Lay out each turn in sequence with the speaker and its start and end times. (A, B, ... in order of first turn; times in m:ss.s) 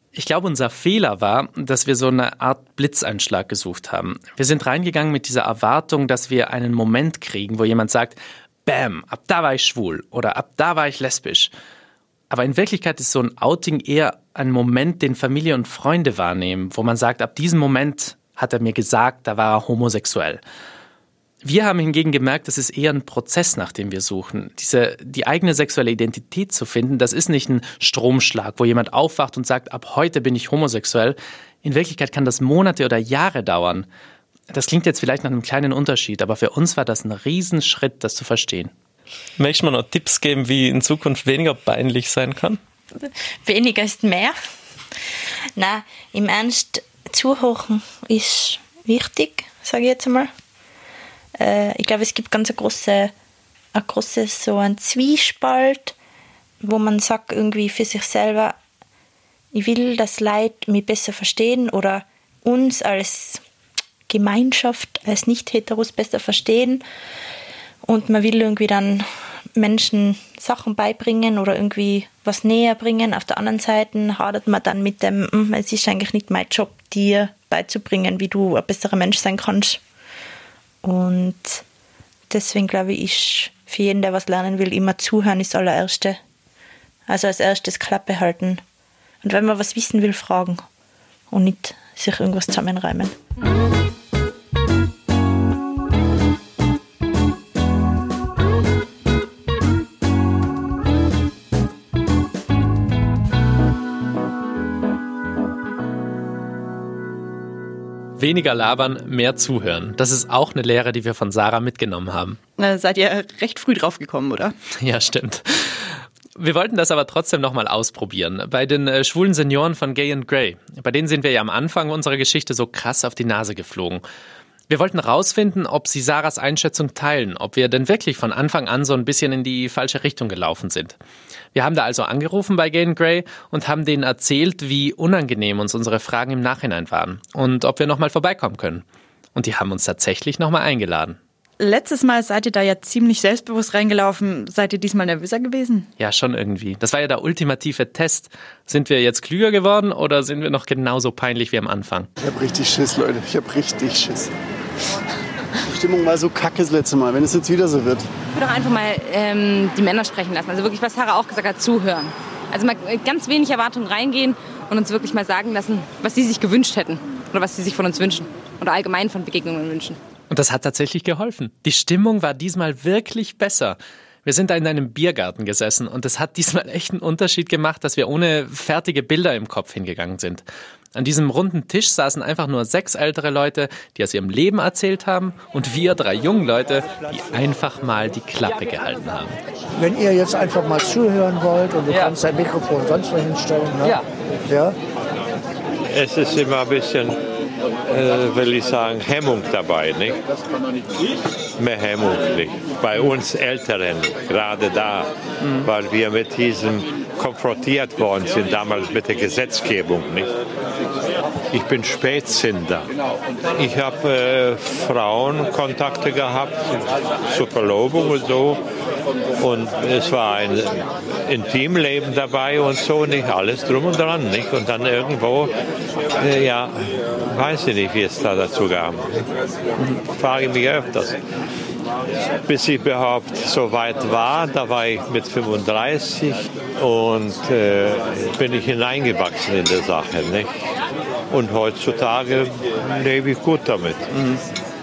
0:00.2-0:11.5 A
0:12.3-0:20.4 A
0:21.4-0:33.9 A
0:34.5-0:38.7 A
0:39.4-0:42.6 A
0:43.0-0:44.4 B
0:45.6-0:50.3 B
0:51.4-0:53.1 B
0:53.8-0:56.0 B
0:56.6-0:58.6 B
0:59.5-1:03.4 B
1:04.1-1:06.8 B
1:07.8-1:19.8 B
1:20.8-1:21.6 B
1:22.3-1:26.2 B
1:27.1-1:28.6 B
1:29.2-1:30.6 B
1:31.3-1:33.2 B
1:48.2-1:52.4 A
1:52.6-1:54.5 C
1:54.8-2:04.0 A
2:04.7-2:11.0 A
2:11.5-2:21.2 A
2:21.6-2:25.9 C
2:26.0-2:32.1 A
2:32.2-2:34.3 D
2:35.6-2:38.1 D
2:38.3-2:50.0 E
2:50.3-3:00.4 A
3:01.0-3:09.4 A
3:09.8-3:14.8 F
3:11.9-3:12.2 A
3:15.9-3:17.2 G
3:17.9-3:20.2 G
3:21.6-3:30.3 G
3:25.4-3:25.7 A
3:31.5-3:32.9 G
3:33.6-3:38.6 G
3:39.4-3:45.5 G
3:46.2-3:49.2 G
3:50.0-3:51.2 G
3:52.4-4:00.5 G
4:01.3-4:04.1 G
4:04.1-4:04.4 A